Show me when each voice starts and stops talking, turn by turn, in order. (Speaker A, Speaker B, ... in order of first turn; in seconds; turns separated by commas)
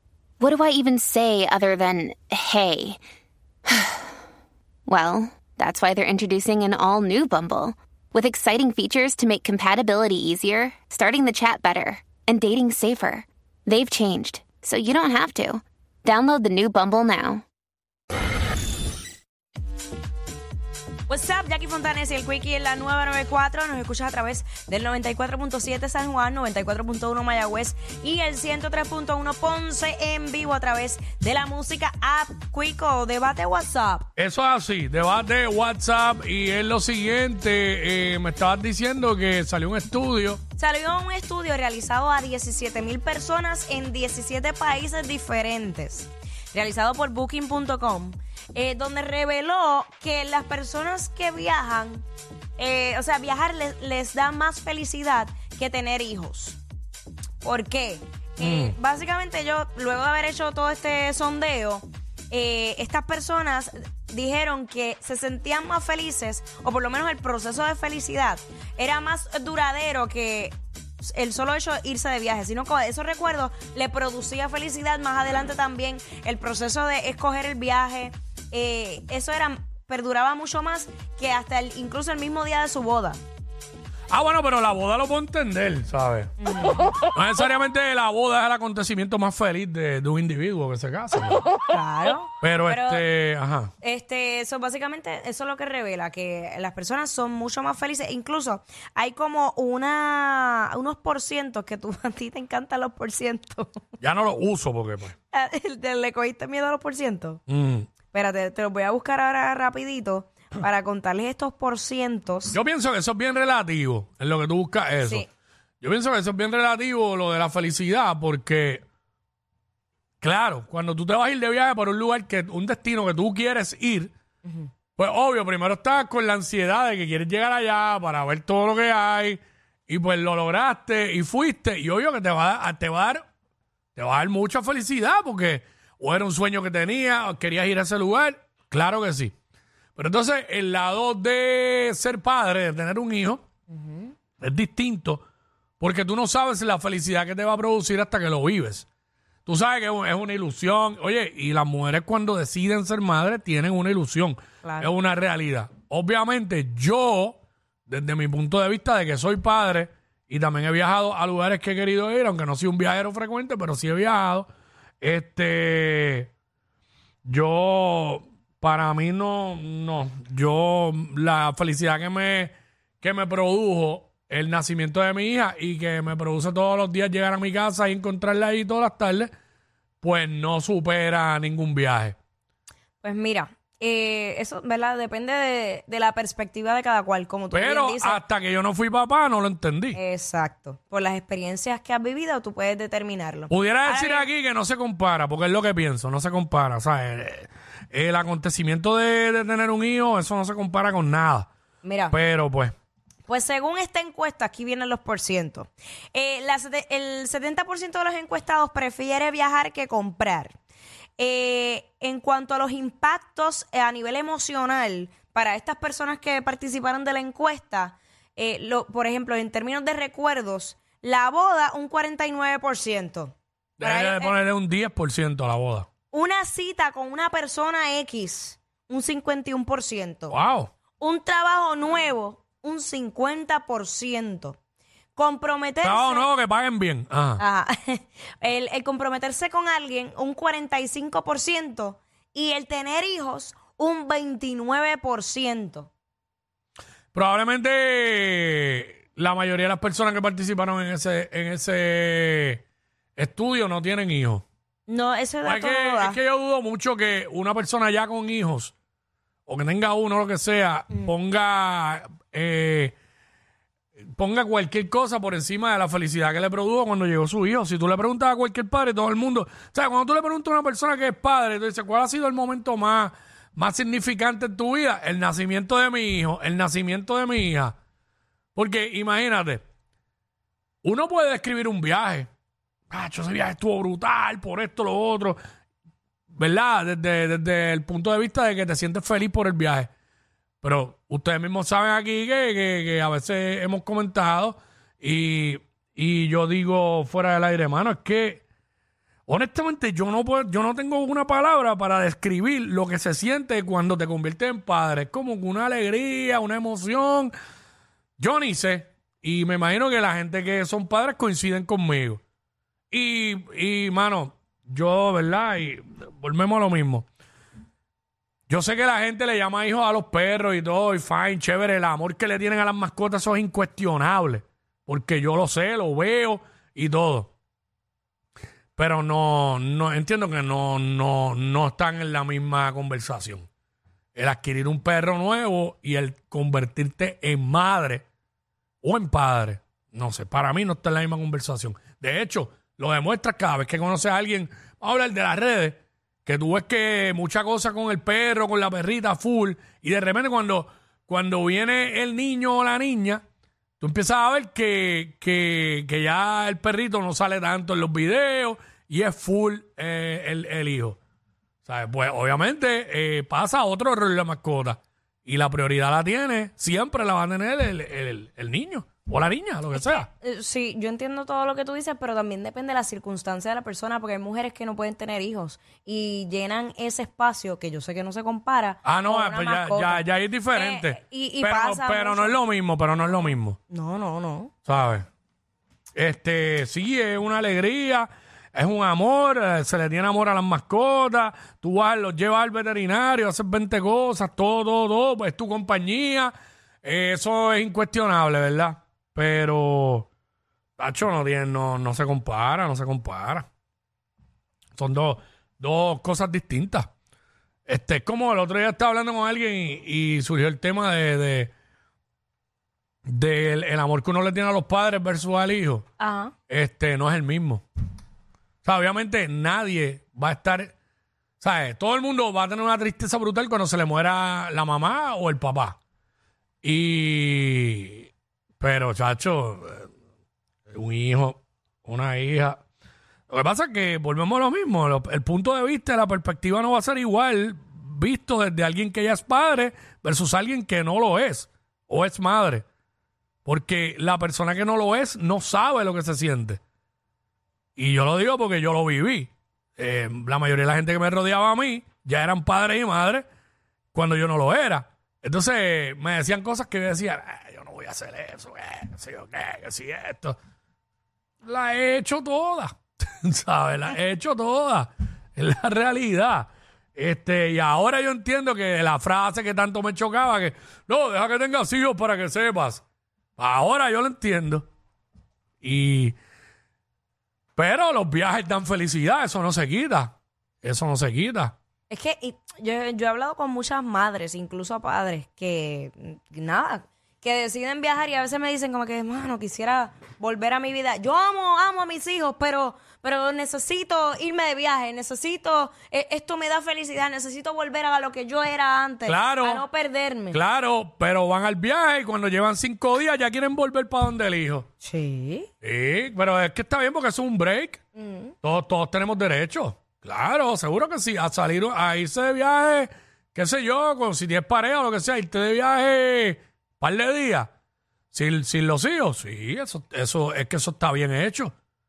Speaker A: 0.4-3.0, Speaker A: 3.7-4.1, Speaker A: 4.9-17.4, Speaker B: 21.1-34.1, Speaker C: 34.1-40.4, Speaker B: 40.6-52.0, Speaker B: 52.6-56.6, Speaker B: 57.4-83.2, Speaker C: 58.4-58.8, Speaker C: 84.1-86.3, Speaker B: 86.4-86.9, Speaker C: 87.1-91.5, Speaker B: 91.5-93.0, Speaker C: 92.4-93.7, Speaker B: 93.8-103.8, Speaker C: 104.0-105.1, Speaker B: 105.3-107.4, Speaker C: 107.5-107.9, Speaker B: 108.1-112.6, Speaker C: 112.5-115.2, Speaker B: 115.0-115.3, Speaker C: 115.8-118.8, Speaker C: 120.2-124.1, Speaker C: 125.0-133.2, Speaker C: 133.9-139.3, Speaker C: 139.9-143.4, Speaker B: 143.7-144.1, Speaker C: 144.4-145.2, Speaker C: 145.8-148.8, Speaker C: 149.4-164.5, Speaker B: 154.6-154.9, Speaker C: 165.0-166.3, Speaker C: 167.2-179.3, Speaker C: 180.0-182.2, Speaker B: 183.0-188.2, Speaker C: 187.5-190.0, Speaker B: 189.9-194.3, Speaker C: 193.5-201.5, Speaker B: 201.8-202.2, Speaker C: 202.1-202.7, Speaker B: 203.3-210.6, Speaker B: 211.2-224.3, Speaker C: 223.8-225.9, Speaker B: 226.1-230.4, Speaker C: 230.3-230.7, Speaker B: 231.0-234.6, Speaker B: 235.1-236.3, Speaker C: 235.8-237.4, Speaker B: 237.4-245.9, Speaker C: 247.1-252.6, Speaker C: 253.2-254.4, Speaker B: 254.9-256.2, Speaker C: 255.4-258.7, Speaker C: 259.5-262.9, Speaker C: 264.0-277.7, Speaker C: 278.5-279.6, Speaker C: 280.8-282.3, Speaker C: 282.9-285.4, Speaker C: 286.3-289.9, Speaker C: 290.6-298.4, Speaker C: 299.3-307.3, Speaker C: 308.2-312.2, Speaker C: 312.9-317.1, Speaker C: 318.5-327.3, Speaker C: 328.8-333.5, Speaker C: 334.1-338.0, Speaker C: 338.8-353.2, Speaker C: 353.8-361.0, Speaker C: 361.6-370.1, Speaker B: 369.7-382.4, Speaker C: 378.8-383.6, Speaker B: 383.1-384.5, Speaker C: 384.6-385.1, Speaker C: 385.9-396.3, Speaker C: 396.8-400.1, Speaker C: 400.8-403.5, Speaker C: 404.7-406.9, Speaker C: 407.7-411.5, Speaker C: 413.1-415.9, Speaker B: 416.0-416.3, Speaker C: 416.5-417.6, Speaker C: 418.6-420.7, Speaker C: 421.4-425.8, Speaker C: 426.6-428.1, Speaker C: 428.6-429.9, Speaker C: 430.7-432.6, Speaker C: 433.3-442.6, Speaker C: 443.4-446.6, Speaker C: 447.8-453.2, Speaker C: 453.9-460.4, Speaker C: 461.4-472.8, Speaker C: 473.4-474.7, Speaker C: 475.6-476.1, Speaker C: 477.6-481.5, Speaker B: 481.9-500.4, Speaker C: 499.0-499.6, Speaker C: 500.3-504.7, Speaker B: 504.8-505.5, Speaker C: 505.6-507.8, Speaker B: 507.9-508.3, Speaker C: 508.4-517.5, Speaker C: 518.1-521.5